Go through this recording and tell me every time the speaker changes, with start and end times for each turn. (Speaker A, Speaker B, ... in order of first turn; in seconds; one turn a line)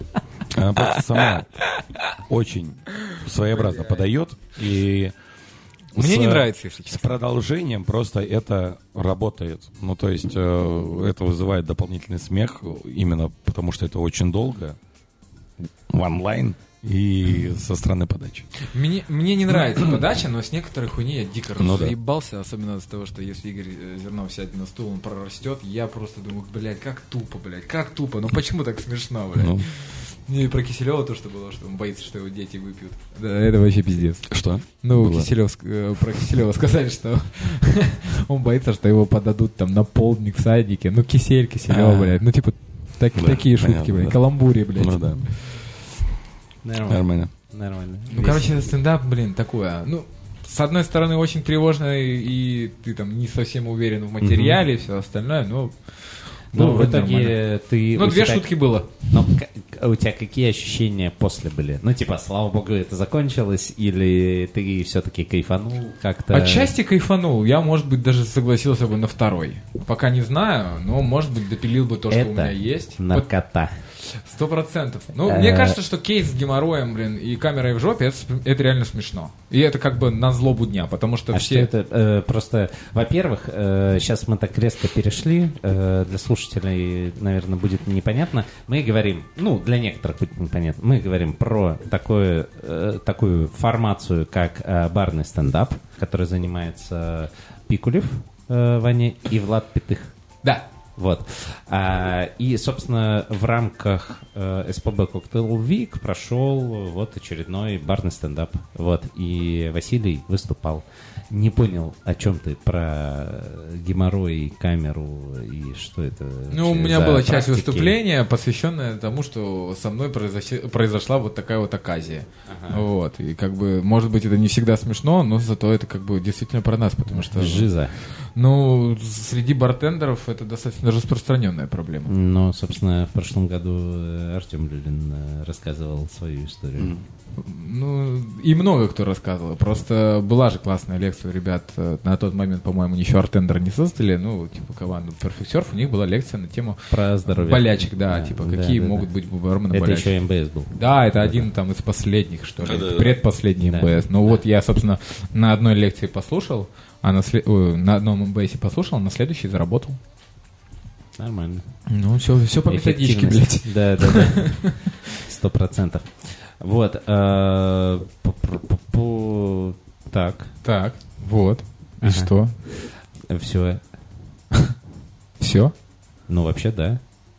Speaker A: 0.5-5.2
Speaker B: 0.8-1.8
Speaker B: 3.1-4.0
Speaker A: 5.9-14.8
Speaker B: 5.9-7.2
Speaker A: 15.9-18.5
Speaker B: 18.6-45.6
Speaker A: 21.6-21.9
Speaker A: 29.3-29.7
Speaker A: 34.3-35.3
Speaker A: 41.7-42.2
Speaker A: 43.1-45.3
Speaker C: 46.6-48.7
Speaker A: 46.9-47.3
Speaker B: 48.1-57.4
Speaker C: 54.2-54.6
Speaker C: 56.5-66.7
Speaker B: 57.9-59.1
Speaker B: 66.3-73.3
Speaker C: 72.1-73.8
Speaker B: 73.9-81.7
Speaker C: 75.2-75.8
Speaker C: 81.3-100.1
Speaker C: 101.0-118.0
Speaker B: 116.5-132.1
Speaker C: 122.5-122.8
Speaker C: 127.1-128.0
Speaker C: 132.1-136.9
Speaker A: 136.8-137.0
Speaker B: 137.3-150.1
Speaker C: 146.9-149.1
Speaker C: 149.7-151.5
Speaker B: 150.7-160.0
Speaker A: 152.6-153.2
Speaker C: 153.6-154.4
Speaker C: 161.2-161.8
Speaker B: 161.9-164.8
Speaker C: 162.7-170.5
Speaker B: 170.6-172.6
Speaker C: 172.0-173.9
Speaker B: 175.4-175.7
Speaker C: 176.3-177.0